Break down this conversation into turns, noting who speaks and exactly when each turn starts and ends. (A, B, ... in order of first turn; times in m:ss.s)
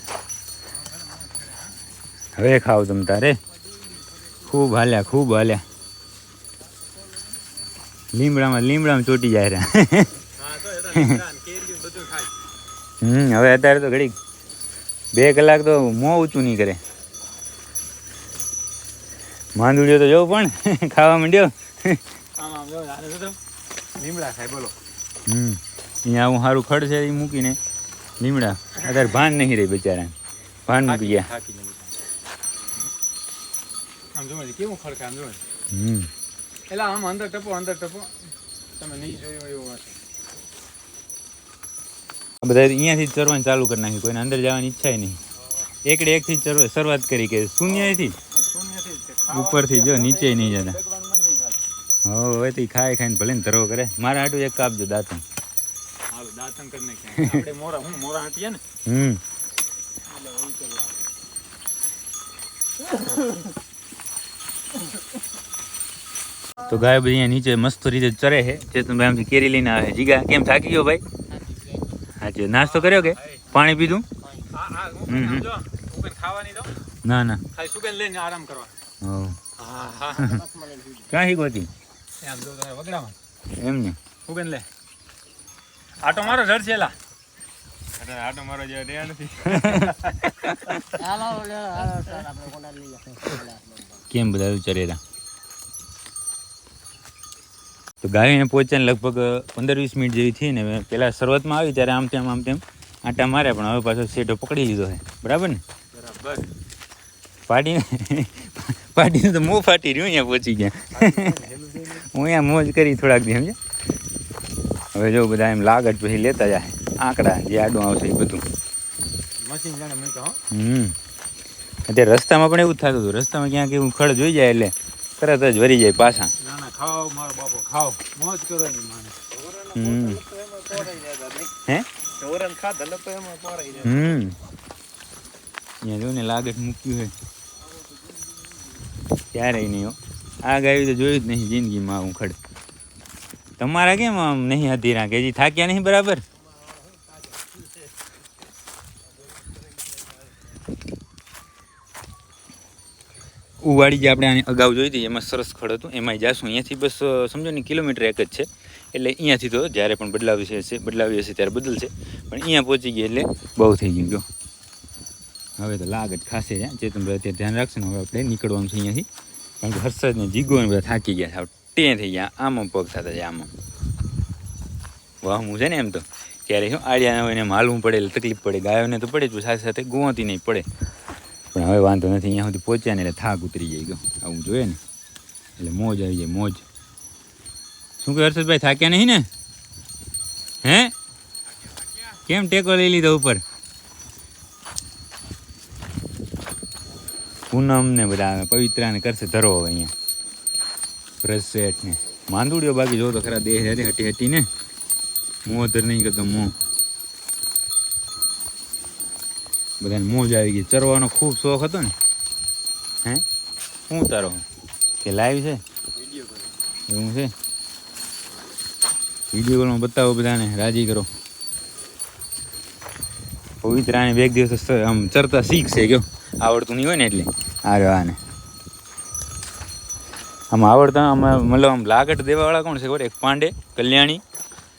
0:02.4-0:03.4 A
0:04.4-0:05.6 A
0:08.1-0:10.1 A
0:10.4-0:12.3 B
0:10.9-0:11.2 A
0:13.0-0:14.2 A
0:15.1-0:16.8 A
0:19.6-0:22.0 A
0:22.4-0:23.4 B
0:24.0-0:24.8 B
0:25.2-0:27.6 A
0:28.2-0:30.2 A
0:30.7-0:31.3 A
0:30.8-0:31.9 B
0:34.2-0:35.4 B
0:35.7-0:36.1 A
0:36.7-0:38.2 B
0:38.8-0:40.0 B
0:42.4-0:45.2 A
0:45.8-0:48.2 A
0:48.4-0:51.6 B
0:49.3-0:50.8 A
0:52.0-0:55.2 A
0:56.1-0:58.6 B
0:57.2-0:57.4 A
0:58.9-0:59.2 A
1:00.1-1:01.0 C
1:06.7-1:11.0 A
1:11.4-1:11.9 C
1:12.2-1:14.1 A
1:12.6-1:13.4 B
1:14.2-1:14.6 C
1:14.5-1:16.7 B
1:15.1-1:15.5 A
1:17.0-1:17.4 A
1:17.5-1:18.7 B
1:19.0-1:19.4 A
1:19.6-1:20.3 B
1:20.2-1:21.1 C
1:21.1-1:21.7 A
1:22.2-1:23.2 B
1:23.6-1:24.0 A
1:24.3-1:24.7 B
1:26.0-1:27.0 B
1:28.0-1:30.8 B
1:29.4-1:30.8 A
1:30.9-1:34.0 C
1:34.1-1:35.0 A
1:38.0-1:45.6 A
1:45.9-1:46.5 B
1:47.5-1:53.6 A
1:50.9-1:52.0 B
1:54.9-1:58.5 A
1:59.4-2:00.4 B
2:00.5-2:01.0 A
2:01.9-2:06.3 A
2:06.4-2:11.5 B
2:09.7-2:10.2 A
2:12.2-2:14.2 B
2:13.8-2:14.4 A
2:15.8-2:17.1 A
2:19.3-2:22.4 A
2:23.6-2:26.2 A
2:33.6-2:44.2 A
2:45.6-2:49.1 A
2:49.6-2:53.5 A
2:55.2-3:00.7 A
3:01.5-3:04.8 A
3:05.6-3:06.6 A
3:08.0-3:09.3 A
3:10.6-3:10.9 A
3:12.1-3:13.4 A
3:17.5-3:19.9 A
3:21.2-3:24.5 A
3:25.5-3:26.6 A
3:29.8-3:31.9 A
3:33.9-3:34.5 A
3:35.0-3:35.6 A
3:36.0-3:36.5 B
3:36.9-3:37.3 A
3:39.3-3:41.1 A
3:43.6-3:48.2 A
3:50.5-3:54.2 A